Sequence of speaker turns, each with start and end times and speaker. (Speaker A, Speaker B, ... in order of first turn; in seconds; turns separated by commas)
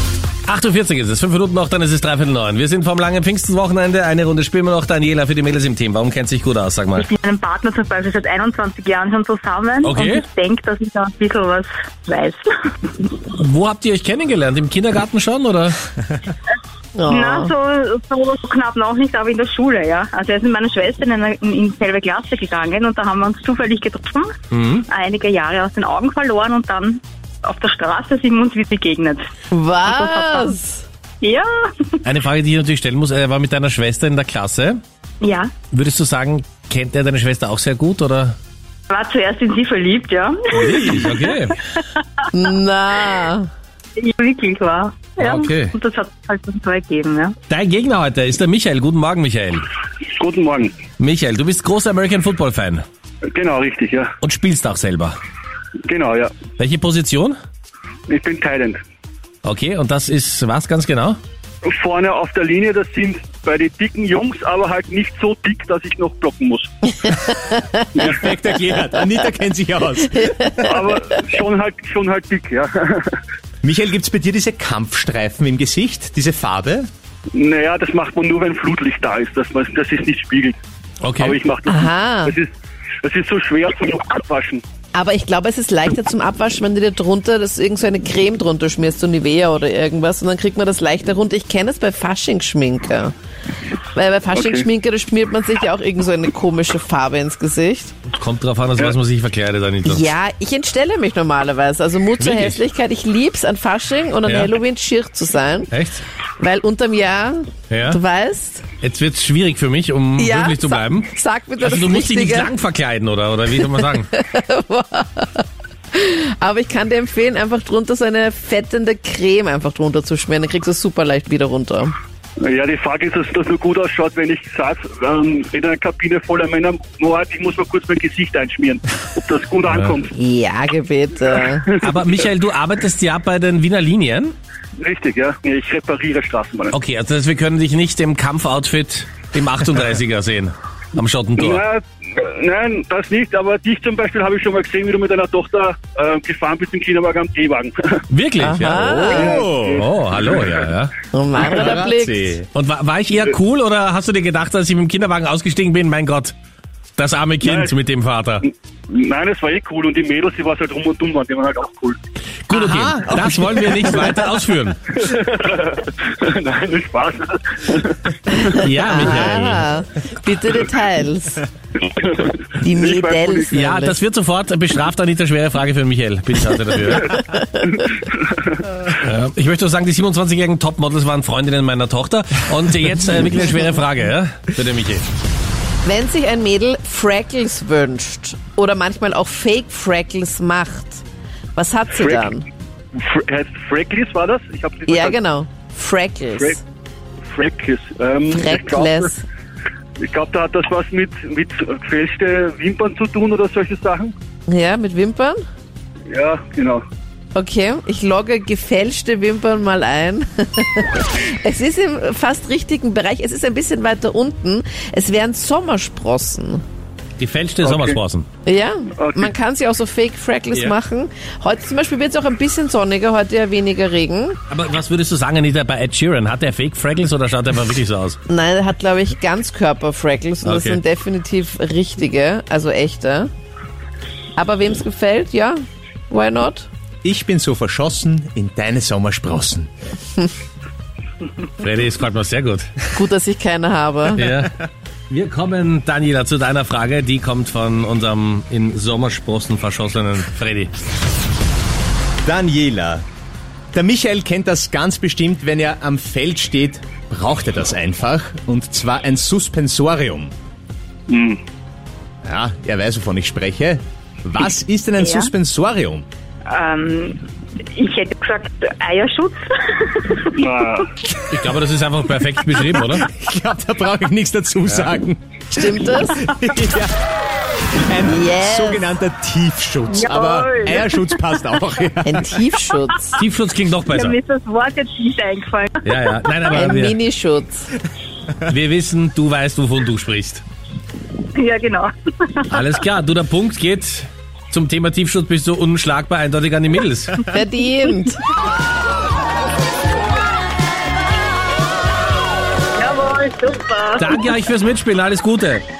Speaker A: 0.5-7.1, Speaker B: 6.9-13.0, Speaker A: 9.8-10.2, Speaker A: 13.3-15.8, Speaker C: 16.9-17.5, Speaker B: 17.1-24.3, Speaker A: 24.5-24.8, Speaker B: 24.8-29.2, Speaker C: 29.5-30.8, Speaker B: 29.8-30.6, Speaker B: 31.2-32.0, Speaker A: 32.0-34.8, Speaker B: 35.2-35.5, Speaker A: 35.7-38.4, Speaker B: 38.9-41.2, Speaker A: 40.5-41.5, Speaker B: 41.7-42.2, Speaker C: 42.3-43.5, Speaker B: 44.0-47.3, Speaker A: 45.2-45.7, Speaker A: 47.5-49.7, Speaker D: 50.1-50.8, Speaker A: 51.0-52.8, Speaker D: 53.3-54.1, Speaker A: 54.2-55.2, Speaker D: 55.9-56.3, Speaker A: 56.6-57.4, Speaker D: 58.1-58.8, Speaker A: 59.4-61.2, Speaker D: 61.6-66.7, Speaker C: 67.0-67.8, Speaker E: 67.9-70.5, Speaker C: 70.2-70.7, Speaker D: 70.6-73.2, Speaker E: 73.6-76.9, Speaker D: 77.3-80.6, Speaker A: 81.0-81.4, Speaker D: 81.2-82.5, Speaker C: 81.7-82.3, Speaker D: 83.0-84.6, Speaker C: 84.9-93.1, Speaker C: 93.9-97.9, Speaker D: 94.3-94.7, Speaker A: 98.1-100.1, Speaker C: 99.8-105.8, Speaker A: 102.2-102.6, Speaker A: 104.2-104.5, Speaker A: 105.7-106.0, Speaker C: 106.4-108.7, Speaker A: 107.7-108.0, Speaker A: 108.8-114.1, Speaker C: 110.2-112.5, Speaker C: 114.1-121.9, Speaker D: 122.4-130.1, Speaker C: 130.2-131.7, Speaker D: 131.3-132.0, Speaker A: 131.8-134.3, Speaker D: 134.8-136.8, Speaker A: 136.7-141.6, Speaker D: 141.4-148.0, Speaker A: 148.1-150.9, Speaker C: 148.4-149.4, Speaker D: 149.1-150.4, Speaker E: 149.3-149.9, Speaker C: 151.1-152.4, Speaker E: 151.4-152.4, Speaker A: 152.5-156.3, Speaker A: 157.0-158.4, Speaker D: 157.4-157.7, Speaker D: 158.4-162.0, Speaker A: 162.5-164.8, Speaker E: 162.5-164.2, Speaker D: 164.9-168.6, Speaker A: 168.6-169.6, Speaker C: 168.8-171.5, Speaker D: 171.8-173.6, Speaker C: 172.6-174.0, Speaker A: 173.5-177.2, Speaker C: 177.2-177.9, Speaker A: 178.9-185.0, Speaker C: 185.8-191.0, Speaker C: 191.5-192.5, Speaker D: 191.9-192.3, Speaker D: 192.9-195.2, Speaker C: 194.9-196.6, Speaker D: 197.3-199.1, Speaker C: 198.3-199.2, Speaker D: 200.0-204.1, Speaker C: 204.5-205.4, Speaker D: 206.1-206.8, Speaker C: 207.3-216.6, Speaker A: 217.2-218.2, Speaker D: 217.6-218.0, Speaker C: 218.4-224.4, Speaker D: 218.9-219.3, Speaker A: 224.5-228.2, Speaker C: 228.3-233.3, Speaker A: 230.4-230.8, Speaker C: 234.3-235.6, Speaker C: 236.1-236.7, Speaker E: 237.0-239.7, Speaker A: 241.6-242.7, Speaker C: 242.9-244.3, Speaker A: 244.2-244.5, Speaker A: 245.1-250.7, Speaker E: 252.2-253.0, Speaker E: 253.7-260.3, Speaker D: 261.1-261.4, Speaker E: 262.2-266.1, Speaker B: 265.0-265.3, Speaker B: 266.5-270.8, Speaker D: 270.3-270.9, Speaker A: 271.3-273.1, Speaker B: 272.2-272.8, Speaker E: 272.9-276.9, Speaker C: 275.5-276.2, Speaker B: 276.2-276.6, Speaker E: 277.7-282.4, Speaker C: 278.0-279.0, Speaker B: 279.9-281.5, Speaker C: 282.0-283.1, Speaker A: 283.1-284.1, Speaker B: 283.9-286.1, Speaker A: 285.8-287.0, Speaker C: 286.5-287.7, Speaker A: 288.4-290.4, Speaker B: 291.3-292.6, Speaker A: 292.5-297.4, Speaker C: 297.3-298.2, Speaker B: 302.8-304.3, Speaker A: 304.0-305.6